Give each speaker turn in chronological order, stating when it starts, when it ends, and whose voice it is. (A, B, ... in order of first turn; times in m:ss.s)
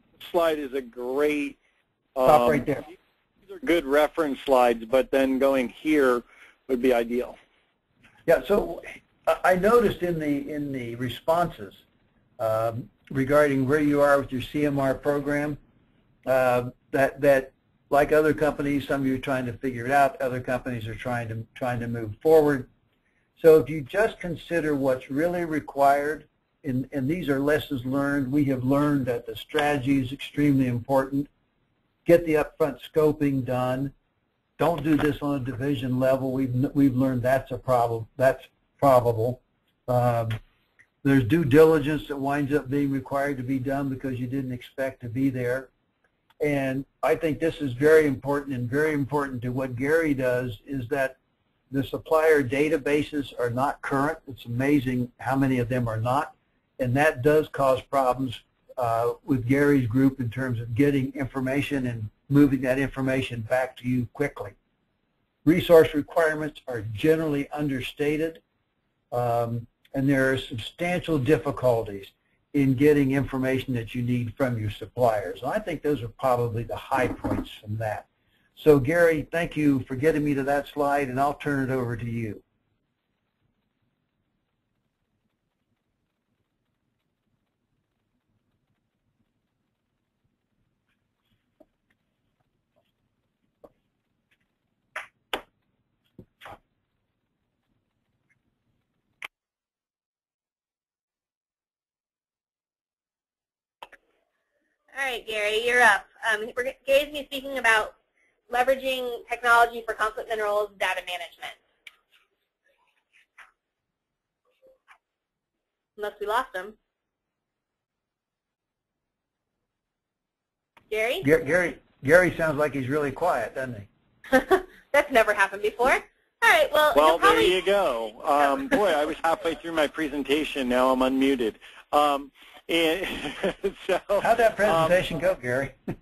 0:00.2-0:01.6 A
0:02.2-0:02.7 A
0:02.2-0:02.8 B
0:03.6-0:07.4 A
0:08.3-0:11.8 B
0:12.4-0:15.6 B
0:16.3-0:22.7 B
0:23.4-0:31.3 B
0:32.1-0:33.9 B
0:34.6-0:40.4 B
0:41.0-0:45.7 B
0:46.4-0:51.2 B
0:51.7-1:04.6 B
1:05.4-1:08.4 B
1:09.1-1:22.4 B
1:44.9-1:47.9 C
1:48.5-1:51.6 C
1:56.0-1:56.8 C
2:00.9-2:01.3 C
2:01.2-2:03.9 B
2:04.3-2:07.6 C
2:07.0-2:15.0 A
2:14.2-2:15.8 B